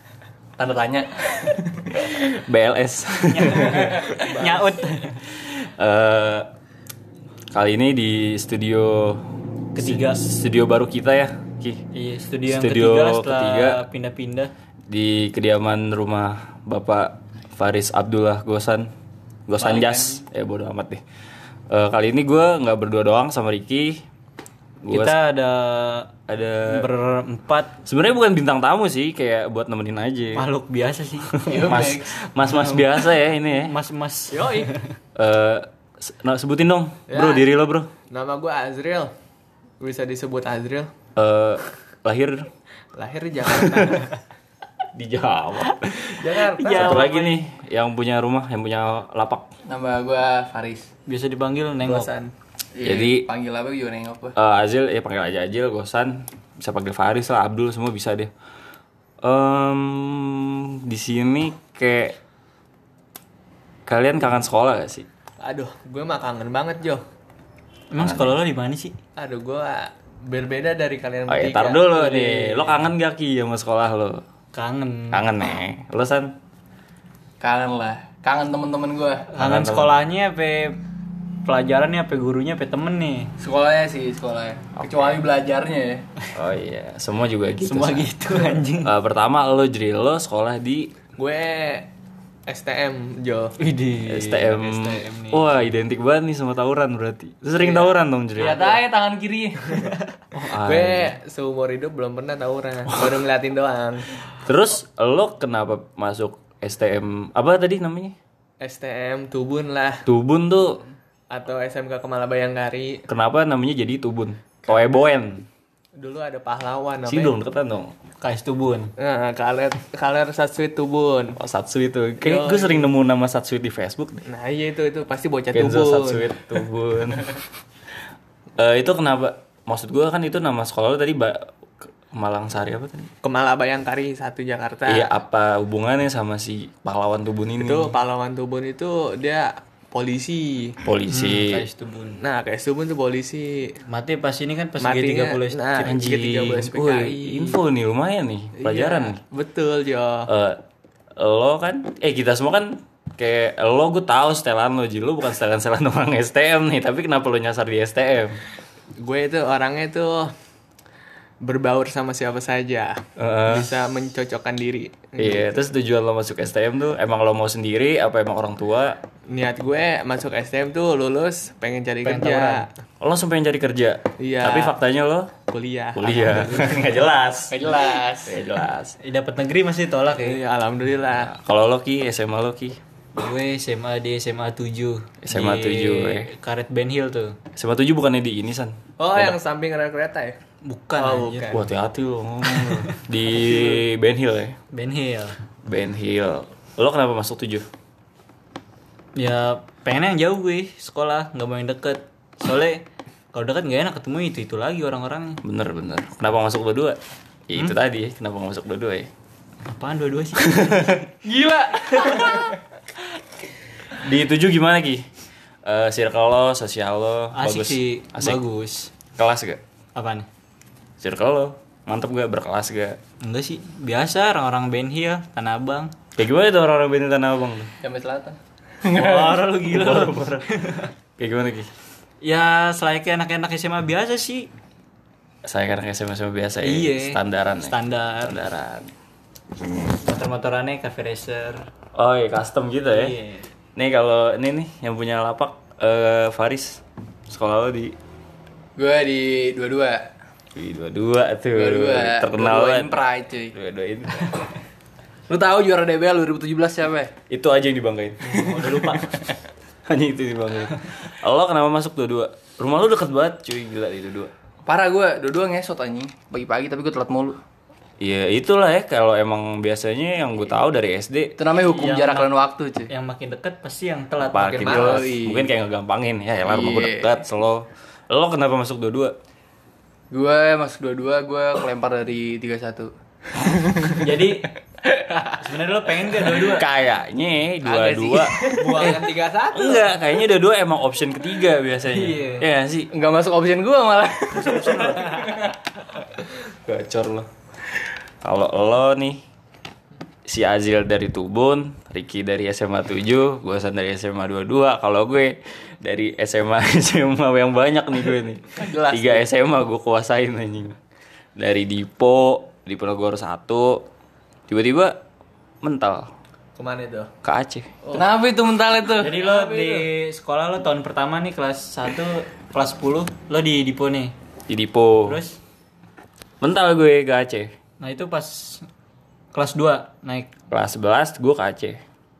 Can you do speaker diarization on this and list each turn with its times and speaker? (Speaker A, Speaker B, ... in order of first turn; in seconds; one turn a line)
Speaker A: 0.6-1.9
Speaker B: 1.9-6.5
Speaker C: 3.3-5.2
Speaker A: 3.6-4.4
Speaker B: 7.5-9.2
Speaker C: 9.7-10.2
Speaker B: 9.8-11.8
Speaker C: 11.9-14.5
Speaker B: 12.4-13.8
Speaker B: 14.9-18.9
Speaker B: 19.5-21.0
Speaker A: 19.6-20.2
Speaker B: 21.7-24.0
Speaker B: 24.8-25.2
Speaker C: 24.9-26.1
Speaker B: 26.3-26.9
Speaker C: 26.6-27.7
Speaker B: 27.8-30.4
Speaker C: 30.3-31.5
Speaker B: 31.3-33.7
Speaker A: 31.4-32.2
Speaker C: 33.5-34.9
Speaker D: 34.3-34.7
Speaker B: 35.1-37.9
Speaker D: 37.1-37.5
Speaker D: 38.1-39.1
Speaker D: 39.8-40.9
Speaker B: 41.1-42.5
Speaker D: 43.0-44.1
Speaker B: 43.5-44.0
Speaker B: 44.9-49.5
Speaker D: 46.1-47.1
Speaker C: 46.3-47.3
Speaker A: 49.6-50.9
Speaker C: 51.1-52.1
Speaker D: 51.8-52.3
Speaker A: 52.8-54.3
Speaker B: 52.8-53.2
Speaker B: 54.4-58.3
Speaker B: 59.2-62.2
Speaker B: 63.9-65.1
Speaker D: 65.4-67.0
Speaker C: 67.9-69.0
Speaker B: 68.0-68.3
Speaker D: 69.2-72.4
Speaker B: 71.3-74.2
Speaker C: 72.0-72.7
Speaker C: 74.5-75.2
Speaker B: 75.1-76.3
Speaker A: 77.4-79.3
Speaker C: 79.3-80.8
Speaker B: 79.4-79.9
Speaker C: 81.4-83.3
Speaker A: 83.4-86.0
Speaker B: 84.8-85.2
Speaker B: 86.3-90.9
Speaker C: 87.6-88.9
Speaker D: 91.2-91.9
Speaker D: 92.5-93.5
Speaker C: 93.6-95.5
Speaker B: 94.0-98.8
Speaker A: 98.3-99.9
Speaker D: 100.3-104.1
Speaker B: 100.3-101.1
Speaker B: 104.4-108.2
Speaker D: 108.6-110.0
Speaker B: 110.0-110.8
Speaker D: 111.3-113.0
Speaker B: 113.1-115.5
Speaker D: 116.0-117.3
Speaker B: 117.0-117.9
Speaker C: 118.2-118.9
Speaker D: 119.0-121.4
Speaker B: 121.3-124.2
Speaker D: 122.2-122.9
Speaker D: 124.3-126.4
Speaker B: 125.5-127.3
Speaker B: 128.6-133.1
Speaker D: 133.2-135.1
Speaker B: 134.8-137.9
Speaker D: 137.6-140.8
Speaker B: 140.8-141.7
Speaker C: 141.1-142.2
Speaker D: 142.2-143.8
Speaker C: 143.9-145.8
Speaker D: 144.8-147.6
Speaker B: 145.8-149.2
Speaker D: 148.6-150.3
Speaker B: 150.3-150.6
Speaker B: 151.2-158.4
Speaker D: 159.0-160.3
Speaker D: 161.4-165.7
Speaker B: 163.2-163.7
Speaker B: 165.2-169.0
Speaker D: 169.3-172.7
Speaker C: 172.0-172.7
Speaker B: 173.0-175.3
Speaker D: 174.2-174.7
Speaker D: 175.5-176.8
Speaker B: 175.9-177.7
Speaker A: 177.5-178.3
Speaker D: 177.6-178.2
Speaker B: 178.2-178.9
Speaker C: 179.0-180.4
Speaker D: 180.1-181.3
Speaker B: 181.2-182.8
Speaker C: 183.1-187.4
Speaker B: 185.2-186.3
Speaker B: 187.6-189.3
Speaker D: 189.0-190.4
Speaker C: 190.6-191.5
Speaker D: 191.0-191.6
Speaker B: 191.5-194.6
Speaker C: 192.6-193.4
Speaker C: 194.7-195.3
Speaker B: 195.6-197.7
Speaker C: 199.2-205.4
Speaker B: 205.4-209.1
Speaker C: 209.7-211.0
Speaker B: 210.4-210.9
Speaker A: 211.2-212.4
Speaker C: 212.0-212.4
Speaker B: 214.0-215.0
Speaker B: 215.6-218.4
Speaker C: 217.3-218.9
Speaker B: 219.2-219.6
Speaker C: 219.9-220.3
Speaker B: 221.0-223.0
Speaker C: 223.2-225.9
Speaker B: 226.2-227.7
Speaker A: 227.8-229.4
Speaker C: 228.9-230.9
Speaker B: 229.6-230.5
Speaker B: 231.2-231.7
Speaker C: 232.2-234.5
Speaker B: 235.4-238.9
Speaker C: 236.6-238.3
Speaker C: 239.9-241.7
Speaker B: 241.9-243.1
Speaker C: 242.9-243.4
Speaker B: 243.8-247.9
Speaker A: 248.8-250.1
Speaker B: 250.5-253.0
Speaker A: 251.5-253.5
Speaker B: 253.5-254.3
Speaker A: 255.3-257.1
Speaker B: 257.3-258.5
Speaker C: 258.2-259.3
Speaker A: 258.4-258.7
Speaker B: 259.9-264.3
Speaker A: 264.6-267.4
Speaker B: 268.0-271.4
Speaker A: 271.4-272.9
Speaker C: 271.7-272.3
Speaker C: 272.9-275.0
Speaker B: 274.3-279.1
Speaker A: 274.6-275.5
Speaker A: 276.4-277.1
Speaker A: 280.1-284.1
Speaker C: 283.9-284.5
Speaker A: 284.8-285.4
Speaker C: 285.3-286.6
Speaker B: 286.3-292.9
Speaker A: 287.7-288.6
Speaker D: 288.3-289.9
Speaker C: 291.9-292.4
Speaker A: 292.9-295.5
Speaker C: 294.3-295.4
Speaker B: 296.5-297.3
Speaker B: 298.2-299.2
Speaker B: 300.2-310.8
Speaker A: 308.6-309.2
Speaker B: 311.4-313.9
Speaker B: 314.5-315.0
Speaker B: 315.6-316.1
Speaker D: 316.6-317.1
Speaker B: 317.2-317.7
Speaker A: 317.9-319.8
Speaker C: 318.9-324.1
Speaker B: 324.5-325.2
Speaker C: 325.0-325.4
Speaker B: 326.4-327.5
Speaker C: 327.8-328.6
Speaker C: 329.3-330.3
Speaker B: 330.5-331.8